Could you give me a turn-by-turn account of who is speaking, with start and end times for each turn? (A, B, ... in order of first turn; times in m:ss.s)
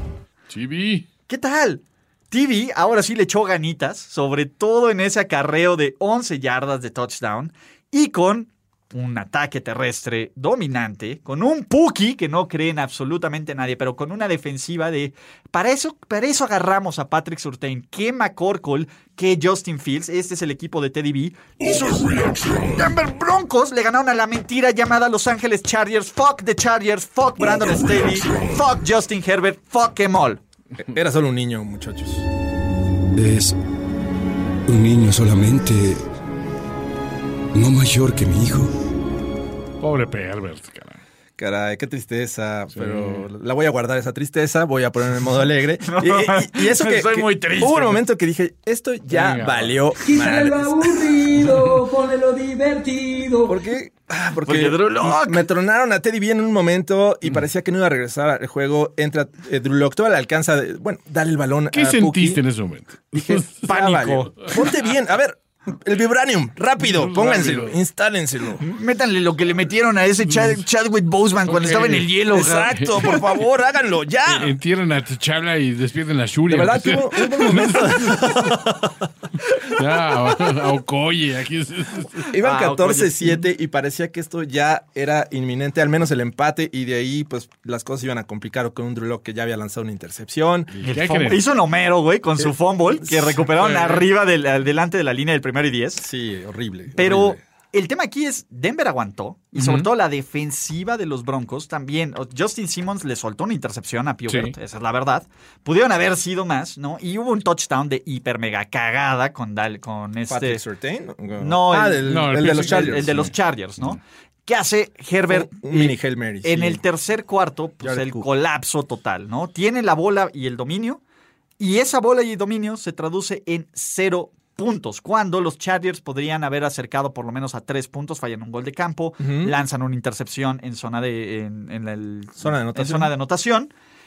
0:00.5-0:01.1 A
0:01.3-0:22.2 B
0:22.7-0:30.4 B
0:30.8-0:32.2 C
0:33.1-0:33.5 D
0:34.7-0:36.0 D
0:37.5-0:38.7 D
0:39.8-0:41.0 A
0:41.4-0:50.9 C
0:42.7-0:43.2 A
0:45.8-0:48.0 B
0:49.1-0:49.8 A
0:51.0-0:53.4 E
0:53.4-1:02.4 C
0:54.4-0:55.5 B
1:01.7-1:03.6 A
1:03.1-1:08.6 C
1:03.7-1:04.5 B
1:06.8-1:07.8 A
1:08.6-1:13.1 B
1:11.5-1:12.1 A
1:12.3-1:14.6 C
1:12.7-1:13.2 A
1:14.3-1:18.4 A
1:16.5-1:18.9 C
1:19.7-1:22.2 A
1:22.3-1:30.7 C
1:22.4-1:23.4 B
1:30.8-1:31.4 A
1:30.8-1:36.0 B
1:33.0-1:33.4 C
1:33.6-1:34.1 A
1:36.0-1:37.4 C
1:36.9-1:50.6 B
1:39.5-1:39.9 A
1:44.3-1:44.5 A
1:50.3-1:53.2 C
1:51.4-2:01.0 B
1:52.0-1:53.9 A
1:55.3-1:56.8 C
1:57.8-1:58.3 C
2:01.6-2:13.7 B
2:09.2-2:09.5 C
2:12.4-2:13.1 C